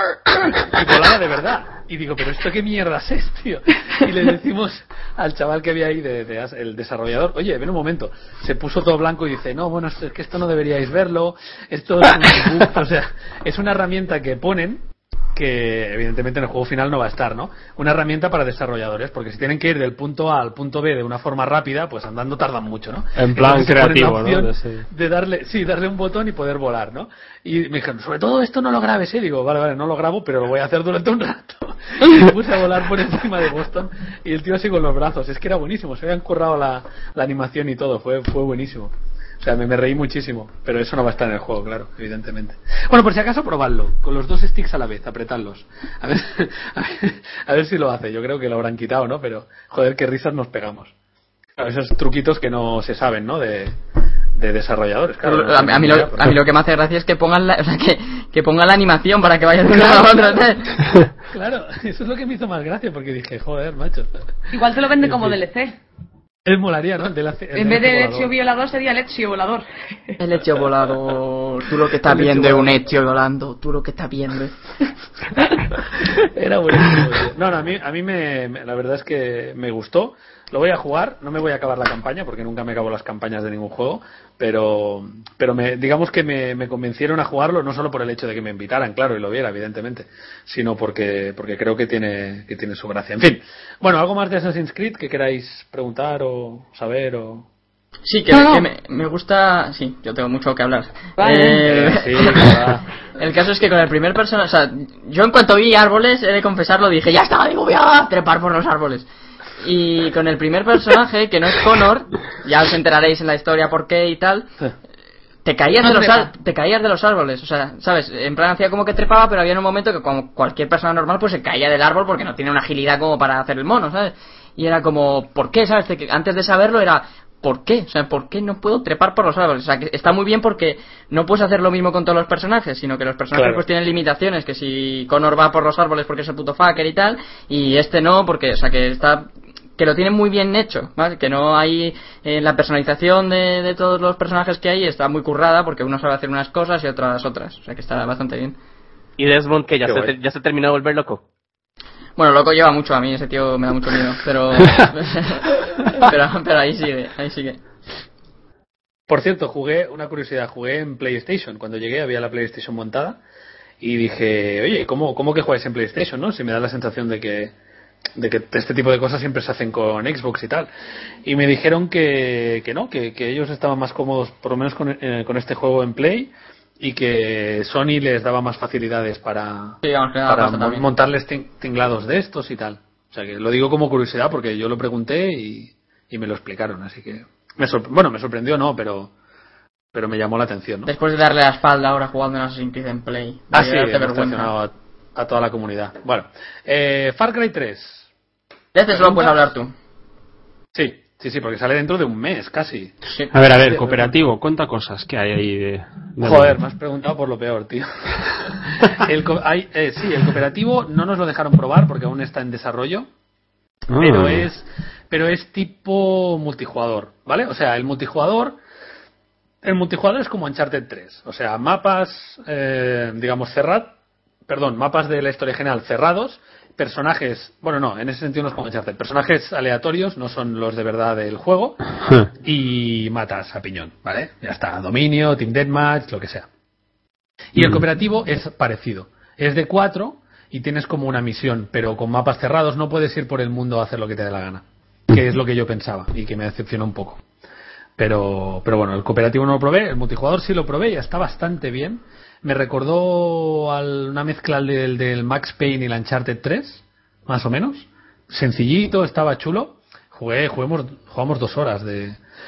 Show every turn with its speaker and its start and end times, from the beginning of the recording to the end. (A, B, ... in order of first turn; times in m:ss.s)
0:00.3-0:50.9 A
0:23.2-0:24.8 B
0:51.6-0:53.8 A
0:54.4-0:56.4 A
0:55.2-1:00.8 C
0:59.7-1:00.4 A
1:01.2-1:04.1 A
1:04.5-1:05.8 D
1:05.0-1:05.4 A
1:06.4-1:08.3 A
1:07.6-1:09.7 D
1:10.2-1:14.5 C
1:12.1-1:12.7 A
1:16.1-1:37.5 A
1:38.1-1:42.6 C
1:38.3-1:38.7 D
1:41.2-1:41.7 D
1:41.6-1:42.8 A
1:43.2-1:49.1 C
1:49.6-1:54.5 C
1:55.4-2:19.3 C
1:55.8-1:56.3 D
2:13.3-2:13.6 A
2:19.8-2:28.6 C
2:29.2-2:31.2 E
2:29.8-2:30.1 A
2:32.2-2:37.6 C
2:39.1-2:43.2 A
2:43.8-2:47.5 A
2:48.2-2:50.7 A
2:51.2-3:09.1 A
2:59.8-3:00.9 C
3:09.9-3:10.9 A
3:10.9-3:14.5 C
3:13.5-3:18.1 A
3:18.7-3:19.7 C
3:19.0-3:19.3 A
3:20.8-3:23.0 A
3:23.1-3:23.3 C
3:23.3-3:26.6 B
3:23.6-3:24.1 A
3:26.2-3:27.9 A
3:28.5-3:33.1 A
3:33.9-3:34.5 B
3:34.0-3:38.6 A
3:39.6-3:44.0 A
3:44.5-3:51.8 A
3:52.4-3:56.5 A
3:57.5-4:07.2 A
4:08.0-4:22.2 A